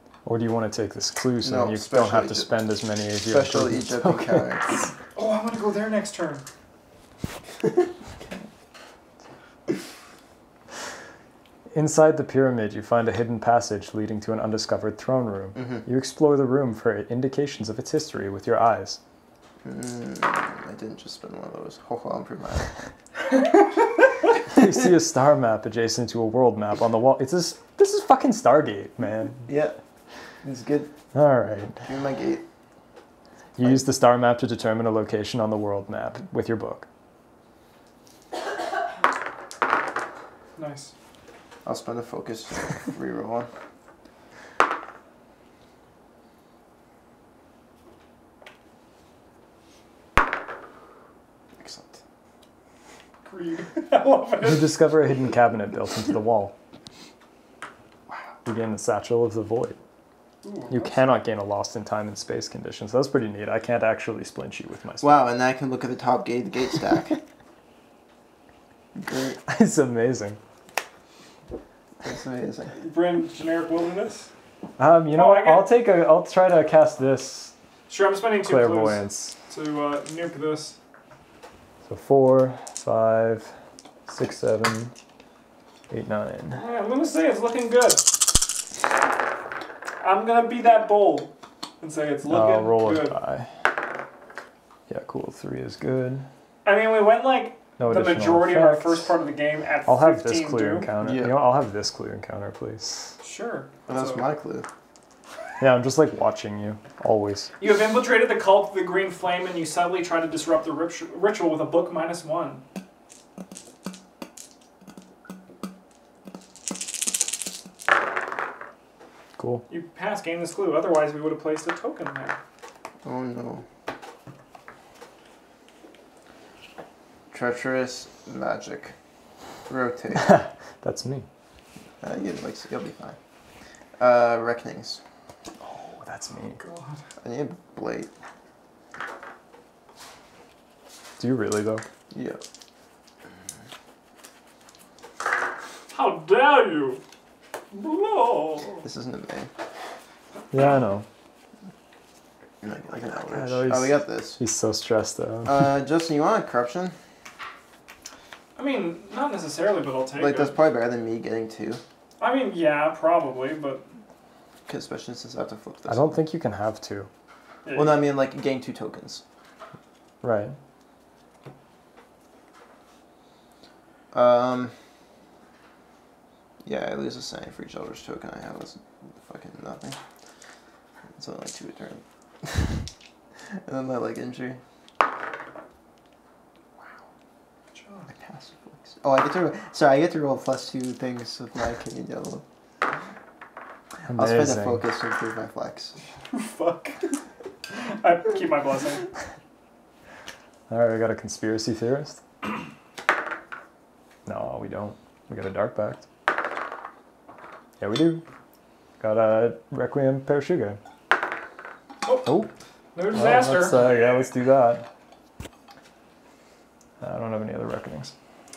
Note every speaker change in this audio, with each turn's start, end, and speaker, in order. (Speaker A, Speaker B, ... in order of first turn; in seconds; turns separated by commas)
Speaker A: 0.2-4.4, Speaker B: 1.4-2.5, Speaker B: 3.3-4.8, Speaker C: 5.2-6.4, Speaker A: 11.7-19.0, Speaker B: 15.6-15.8, Speaker B: 19.6-22.8, Speaker A: 24.5-29.5, Speaker B: 29.5-29.8, Speaker B: 30.4-30.9, Speaker A: 31.1-31.8, Speaker B: 31.8-32.4, Speaker A: 33.6-36.9, Speaker C: 40.5-40.9, Speaker B: 41.6-43.5, Speaker B: 51.6-52.0, Speaker C: 53.2-54.7, Speaker A: 54.4-56.5, Speaker A: 58.4-59.8, Speaker C: 60.4-60.9, Speaker A: 60.7-65.2, Speaker B: 65.0-67.2, Speaker B: 69.0-69.4, Speaker A: 69.5-70.4, Speaker B: 72.0-72.7, Speaker C: 72.7-74.3, Speaker A: 74.8-77.5, Speaker C: 75.1-75.7, Speaker C: 77.9-80.8, Speaker A: 78.4-79.3, Speaker A: 81.8-83.5, Speaker A: 84.1-84.9, Speaker A: 85.9-86.6, Speaker C: 86.5-88.0, Speaker C: 90.0-93.2, Speaker A: 92.3-93.5, Speaker A: 94.9-96.2, Speaker C: 96.6-100.9, Speaker A: 97.8-99.1, Speaker A: 99.9-103.1, Speaker B: 101.0-101.4, Speaker C: 103.2-104.2, Speaker B: 103.9-104.7, Speaker A: 105.6-107.5, Speaker C: 107.6-112.6, Speaker A: 119.4-119.6, Speaker C: 119.7-122.4, Speaker B: 123.0-123.6, Speaker B: 127.3-128.9, Speaker B: 129.7-130.4, Speaker A: 130.1-131.2, Speaker B: 132.0-133.2, Speaker B: 134.0-135.0, Speaker A: 135.6-136.6, Speaker C: 136.6-137.0, Speaker B: 137.2-138.1, Speaker A: 141.2-141.8, Speaker B: 142.1-142.4, Speaker C: 145.9-147.0, Speaker C: 147.7-148.8, Speaker B: 148.8-149.5, Speaker A: 150.5-151.1, Speaker B: 152.6-154.4, Speaker A: 153.2-155.7, Speaker B: 155.4-156.9, Speaker C: 158.6-160.5, Speaker B: 160.2-161.8, Speaker C: 162.2-163.9, Speaker B: 164.7-166.1, Speaker A: 165.9-167.1, Speaker C: 167.6-168.0, Speaker B: 167.7-169.2, Speaker A: 170.2-170.6, Speaker B: 174.1-174.7, Speaker B: 176.6-180.0, Speaker B: 181.1-182.9, Speaker B: 183.4-184.6, Speaker C: 187.7-188.1, Speaker B: 188.1-192.4, Speaker A: 194.1-194.8, Speaker B: 194.1-196.0, Speaker C: 196.3-197.1, Speaker C: 197.7-199.1, Speaker A: 200.7-202.2, Speaker A: 204.2-206.0, Speaker A: 207.8-208.2, Speaker A: 209.0-210.8, Speaker A: 212.2-212.5, Speaker C: 212.9-214.1, Speaker A: 213.1-214.9, Speaker A: 217.0-218.1